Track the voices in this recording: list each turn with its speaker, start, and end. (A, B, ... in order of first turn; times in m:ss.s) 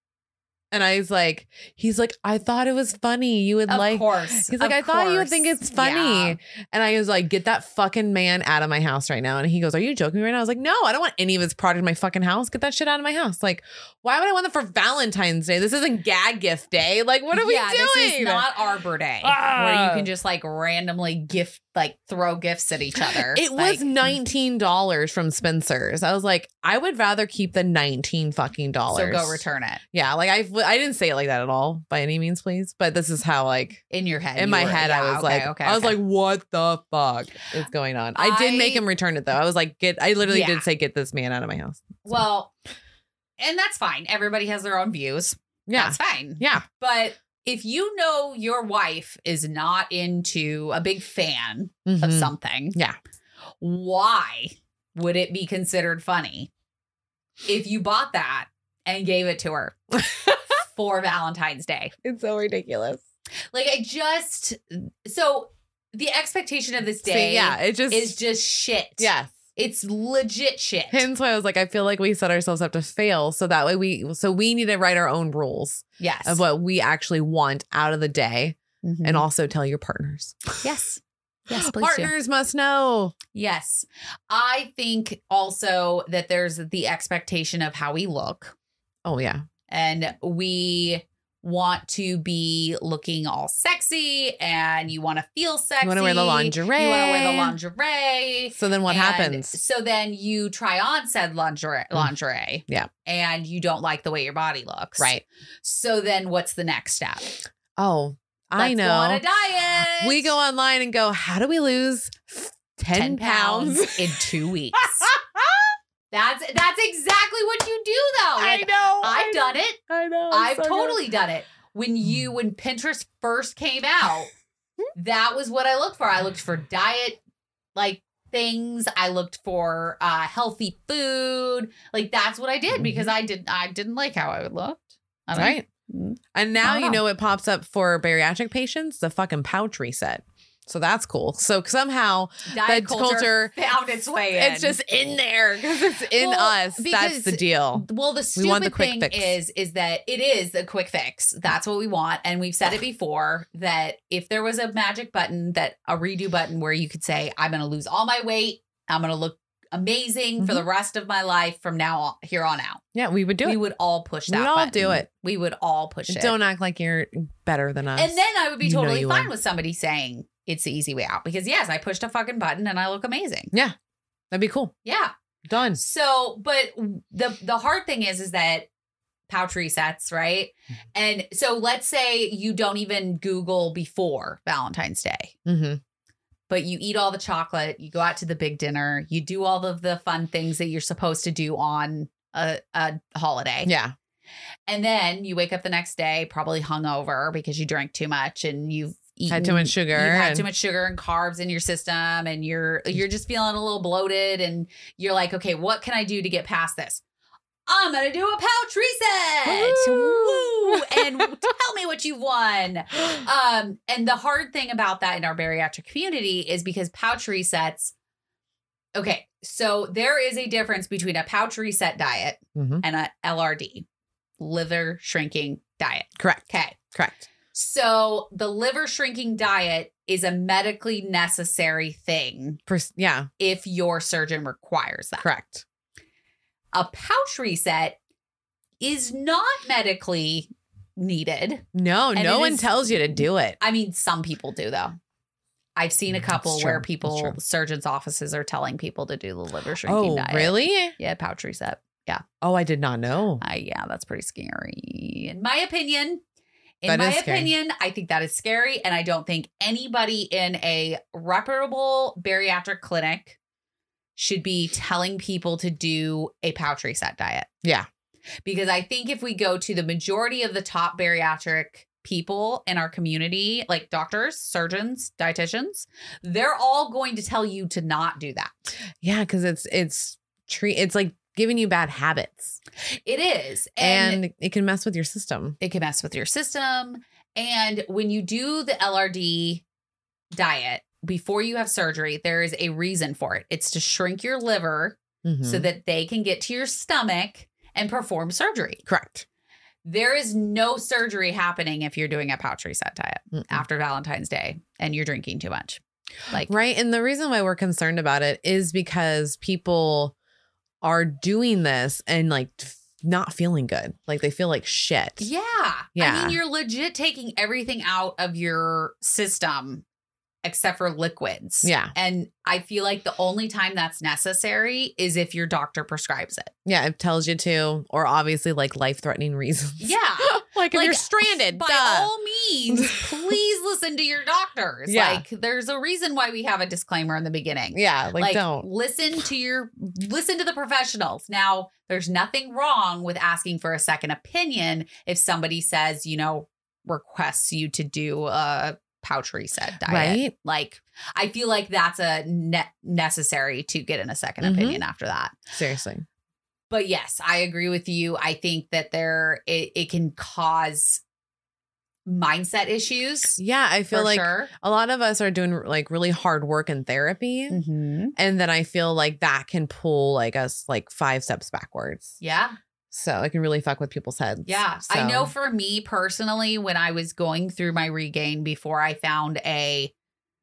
0:00.7-0:18.4 A
0:03.7-0:06.4 B
0:17.3-0:24.2 B
0:19.2-0:20.1 A
0:23.1-0:33.8 A
0:28.9-0:29.8 B
0:33.9-0:36.0 B
0:34.4-0:42.0 A
0:38.1-0:38.8 B
0:40.3-0:40.6 B
0:42.0-0:42.5 B
0:43.4-0:52.8 B
0:45.7-0:46.6 A
0:51.8-0:53.0 A
0:53.6-0:56.5 B
0:57.4-0:59.8 B
1:00.0-1:00.4 A
1:00.3-1:01.9 B
1:02.0-1:03.0 A
1:03.5-1:11.1 B
1:07.0-1:08.2 A
1:09.0-1:09.4 A
1:10.9-1:20.5 A
1:16.0-1:16.4 B
1:18.8-1:19.2 B
1:20.6-1:22.1 B
1:21.5-1:23.2 A
1:23.3-1:28.5 B
1:29.0-1:29.4 A
1:29.7-1:47.4 B
1:35.8-1:37.6 A
1:38.5-1:39.6 A
1:45.0-1:45.2 A
1:47.8-1:49.2 A
1:48.6-1:50.3 B
1:50.0-1:55.7 A
1:52.8-1:55.1 B
1:56.1-2:04.3 B
1:58.4-2:01.0 A
2:04.9-2:07.2 B
2:07.7-2:17.0 B
2:12.7-2:13.1 A
2:15.3-2:15.6 A
2:16.3-2:23.5 A
2:22.5-2:24.8 B
2:24.3-2:29.4 A
2:26.1-2:42.8 B
2:40.4-2:40.6 A
2:42.9-2:43.6 A
2:43.4-2:46.4 B
2:44.3-2:45.1 A
2:46.1-2:49.3 A
2:48.0-2:53.5 B
2:54.3-2:54.7 A
2:54.8-2:55.1 B
2:55.4-2:55.8 A
2:55.7-2:58.7 B
2:59.3-3:05.3 B
3:05.4-3:05.8 A
3:06.5-3:13.7 B
3:13.6-3:13.9 A
3:14.7-3:27.0 B
3:19.3-3:20.4 A
3:27.7-3:37.9 B
3:29.4-3:31.3 A
3:38.9-3:43.8 B
3:42.5-3:42.8 A
3:44.4-3:46.8 B
3:46.2-3:47.3 A
3:47.5-3:52.6 B
3:52.7-3:53.3 A
3:53.4-3:55.3 B
3:55.2-3:55.6 A
3:56.7-3:58.0 B
3:58.8-4:05.0 B
4:01.7-4:03.6 A
4:05.8-4:12.2 B
4:06.1-4:07.4 A
4:09.8-4:10.9 A
4:12.4-4:13.4 A
4:13.4-4:16.2 B
4:16.8-4:23.4 B
4:16.9-4:17.5 A
4:24.2-4:27.5 B
4:28.4-4:38.7 B
4:39.0-4:42.6 A
4:43.0-4:44.2 B
4:43.8-4:45.6 A
4:45.6-4:49.6 B
4:50.3-4:58.8 B
4:55.2-4:55.7 A
4:58.8-4:59.2 A
4:59.8-5:06.5 B
5:03.3-5:03.6 A
5:06.4-5:10.1 A
5:10.8-5:15.3 A
5:15.2-5:19.8 B
5:16.0-5:16.4 A
5:20.4-5:26.5 B
5:21.6-5:21.9 A
5:26.6-5:32.1 A
5:29.8-5:55.4 B
5:32.7-5:33.4 A
5:34.9-5:35.2 A
5:37.7-5:38.6 A
5:49.9-5:50.3 A
5:54.4-5:54.8 A
5:55.5-5:56.0 A
5:56.7-6:01.0 B
6:02.0-6:03.4 B
6:03.4-6:07.6 A
6:03.9-6:04.5 B
6:07.5-6:08.1 B
6:08.2-6:12.2 A
6:12.2-6:12.6 B
6:12.9-6:15.3 A
6:14.4-6:19.9 B